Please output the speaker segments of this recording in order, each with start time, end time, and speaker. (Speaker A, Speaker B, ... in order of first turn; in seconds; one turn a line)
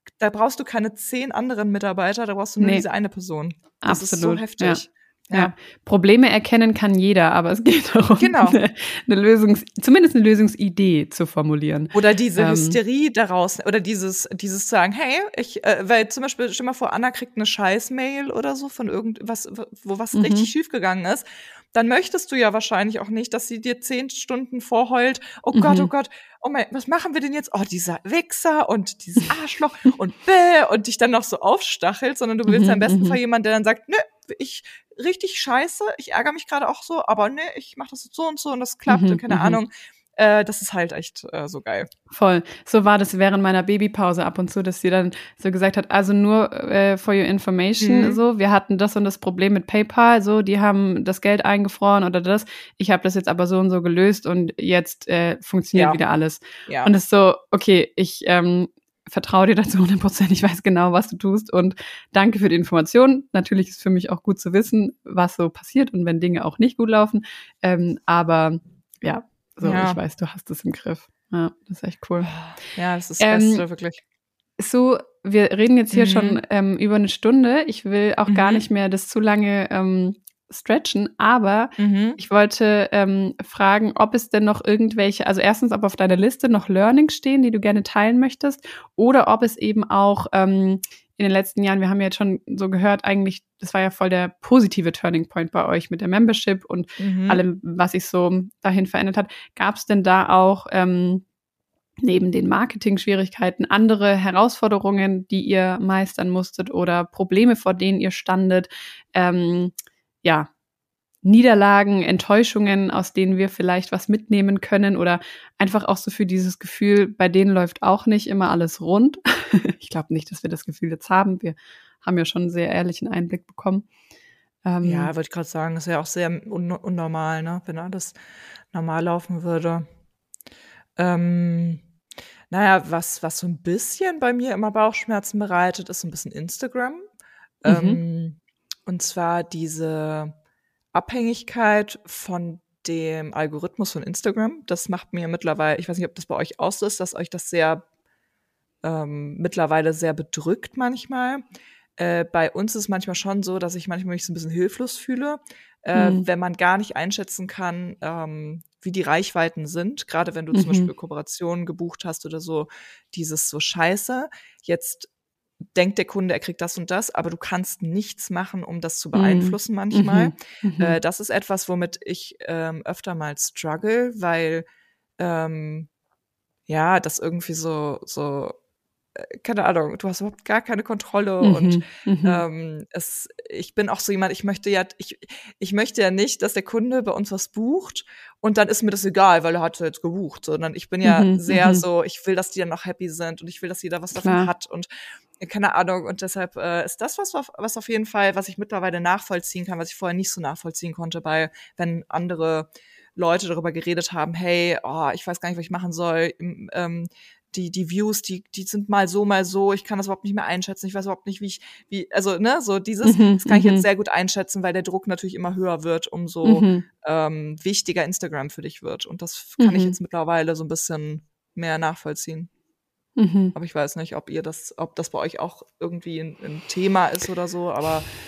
Speaker A: 0.2-5.5
Speaker B: 2.6-2.9
Speaker B: 3.8-4.8
Speaker B: 5.3-12.8
Speaker A: 8.2-8.6
Speaker A: 11.9-41.9
Speaker B: 20.1-20.5
Speaker B: 25.5-25.9
Speaker B: 32.5-33.2
Speaker B: 38.9-39.6
Speaker B: 42.1-72.3
Speaker A: 47.8-48.2
Speaker A: 55.7-56.0
Speaker A: 56.7-56.9
Speaker A: 69.6-70.0
Speaker A: 72.2-74.0
Speaker B: 73.2-73.6
Speaker B: 74.6-101.2
Speaker A: 75.9-76.4
Speaker A: 78.3-78.6
Speaker A: 81.8-82.2
Speaker A: 97.0-97.4
Speaker B: 102.0-110.5
Speaker B: 111.2-123.9
Speaker B: 124.7-125.1
Speaker A: 124.8-128.2
Speaker A: 128.7-129.9
Speaker A: 131.0-131.8
Speaker A: 132.5-137.1
Speaker A: 137.6-140.3
Speaker B: 137.7-138.0
Speaker A: 140.9-147.8
Speaker A: 148.8-151.4
Speaker A: 152.0-165.1
Speaker B: 155.9-156.2
Speaker B: 160.5-160.9
Speaker A: 165.7-174.7
Speaker B: 169.1-171.0
Speaker A: 175.2-175.9
Speaker A: 176.7-178.6
Speaker A: 179.2-194.9
Speaker B: 181.4-182.4
Speaker B: 191.0-191.8
Speaker B: 194.2-194.5
Speaker A: 195.4-222.5
Speaker B: 213.0-213.9
Speaker B: 216.4-216.8
Speaker B: 219.6-220.0
Speaker B: 223.2-223.6
Speaker A: 223.6-228.1